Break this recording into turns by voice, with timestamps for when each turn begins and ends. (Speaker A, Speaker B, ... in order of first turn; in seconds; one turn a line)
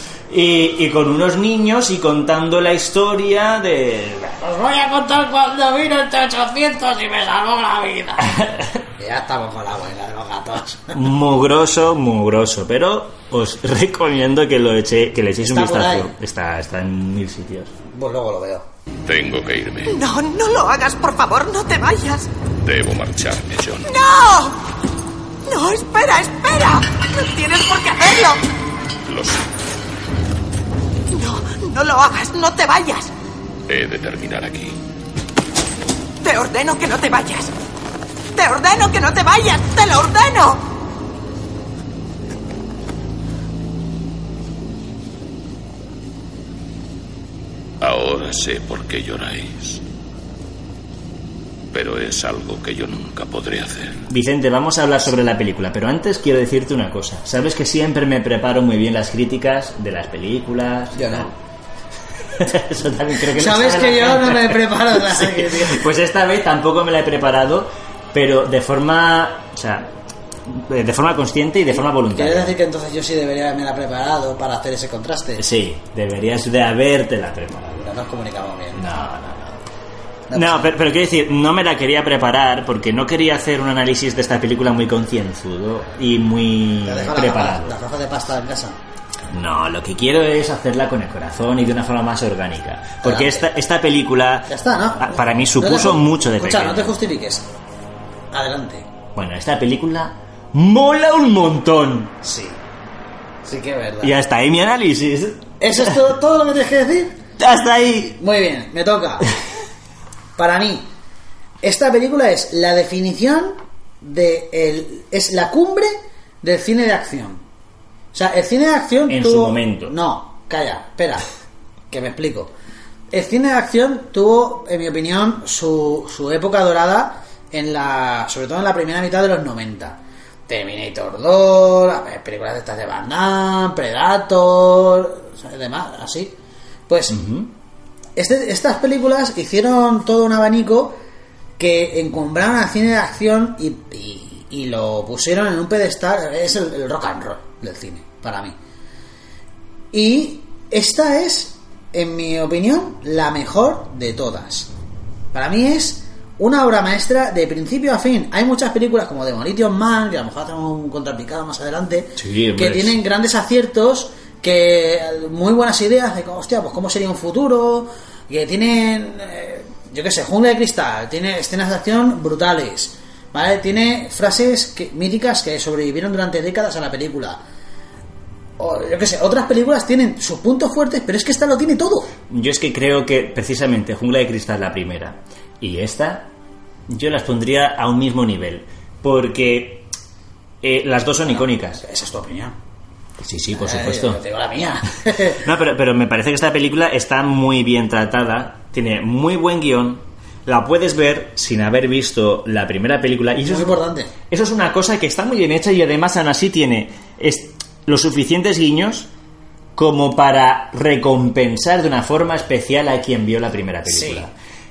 Speaker A: 0.3-4.4
Speaker B: 4.4-8.4
Speaker A: 8.3-8.8
Speaker B: 9.0-11.0
Speaker A: 10.9-17.7
Speaker B: 15.4-16.1
Speaker B: 17.9-18.6
Speaker C: 19.1-20.0
Speaker D: 19.9-22.3
Speaker C: 22.6-23.9
Speaker D: 23.9-24.6
Speaker D: 25.5-28.4
Speaker C: 29.1-29.4
Speaker D: 31.1-33.1
Speaker C: 33.7-34.8
Speaker D: 36.2-37.5
Speaker D: 38.4-40.6
Speaker C: 47.8-49.8
Speaker C: 51.7-54.1
Speaker A: 54.1-61.3
Speaker B: 61.0-61.3
Speaker A: 62.3-69.9
Speaker B: 63.3-65.8
Speaker A: 70.5-72.6
Speaker B: 71.8-75.5
Speaker A: 75.4-77.9
Speaker B: 77.8-78.8
Speaker A: 78.8-79.7
Speaker B: 80.3-80.7
Speaker A: 80.3-87.8
Speaker B: 86.8-88.8
Speaker A: 89.3-97.0
Speaker B: 93.0-93.5
Speaker B: 94.5-97.5
Speaker B: 98.3-98.9
Speaker A: 99.2-102.1
Speaker B: 102.2-102.6
Speaker B: 103.5-104.1
Speaker A: 104.0-106.0
Speaker B: 105.6-107.2
Speaker A: 107.4-108.2
Speaker B: 108.2-109.3
Speaker B: 110.4-110.9
Speaker B: 111.6-117.4
Speaker B: 118.1-121.2
Speaker A: 119.1-120.0
Speaker B: 121.9-122.5
Speaker B: 123.1-136.3
Speaker B: 136.9-137.2
Speaker A: 137.1-137.5
Speaker B: 138.2-141.0
Speaker B: 141.6-148.6
Speaker B: 149.9-154.7
Speaker B: 155.3-177.4
Speaker A: 162.2-163.0
Speaker B: 178.6-182.1
Speaker A: 182.3-186.3
Speaker A: 186.9-189.9
Speaker A: 190.6-191.8
Speaker B: 191.3-192.5
Speaker A: 193.2-194.2
Speaker B: 193.5-195.4
Speaker A: 195.3-209.1
Speaker B: 203.4-204.1
Speaker A: 209.8-214.3
Speaker B: 213.9-214.3